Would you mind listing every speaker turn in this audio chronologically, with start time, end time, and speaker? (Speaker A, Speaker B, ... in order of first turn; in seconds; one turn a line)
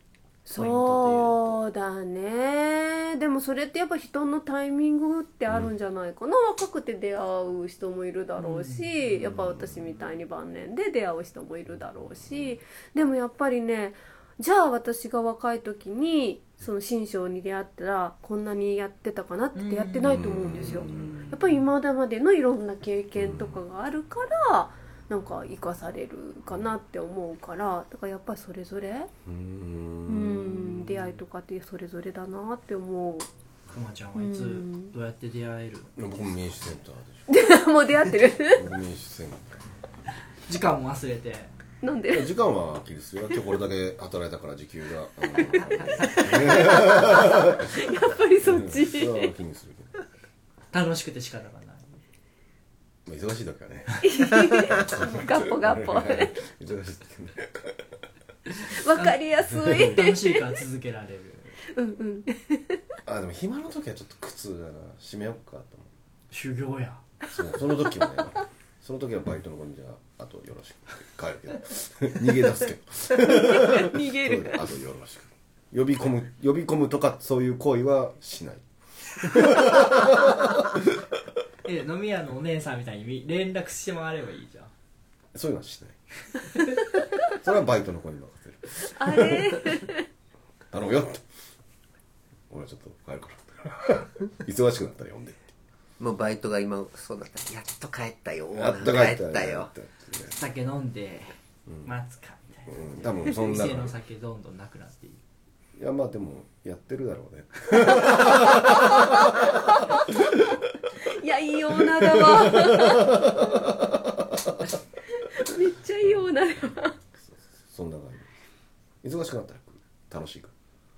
Speaker A: 0.5-29.1
Speaker B: 0.5-1.5
Speaker B: 8.4-9.0
Speaker B: 19.5-20.8
Speaker C: 20.1-21.4
Speaker C: 23.1-23.6
Speaker C: 29.2-31.1
Speaker A: 30.1-33.3
Speaker B: 33.7-35.9
Speaker A: 34.1-34.9
Speaker C: 36.0-37.2
Speaker A: 37.3-38.7
Speaker C: 38.5-39.6
Speaker B: 40.5-41.5
Speaker A: 41.8-42.3
Speaker C: 42.1-47.7
Speaker B: 45.5-46.9
Speaker A: 45.5-49.3
Speaker C: 48.4-49.9
Speaker B: 50.7-52.0
Speaker C: 53.0-57.8
Speaker A: 54.0-56.4
Speaker A: 58.7-60.4
Speaker C: 59.5-59.9
Speaker B: 59.7-61.6
Speaker A: 61.7-62.8
Speaker C: 63.0-65.9
Speaker B: 66.3-67.0
Speaker C: 67.3-78.6
Speaker A: 73.1-74.6
Speaker C: 79.2-80.9
Speaker B: 81.6-84.7
Speaker C: 85.3-86.0
Speaker C: 87.3-89.7
Speaker A: 88.9-90.0
Speaker C: 90.7-91.2
Speaker C: 92.5-95.5
Speaker D: 96.0-99.7
Speaker C: 98.5-100.3
Speaker B: 100.3-105.2
Speaker C: 102.7-103.9
Speaker C: 105.8-110.7
Speaker A: 107.9-110.0
Speaker A: 111.0-113.6
Speaker C: 111.7-114.1
Speaker A: 115.2-116.9
Speaker C: 117.2-118.2
Speaker C: 119.0-120.5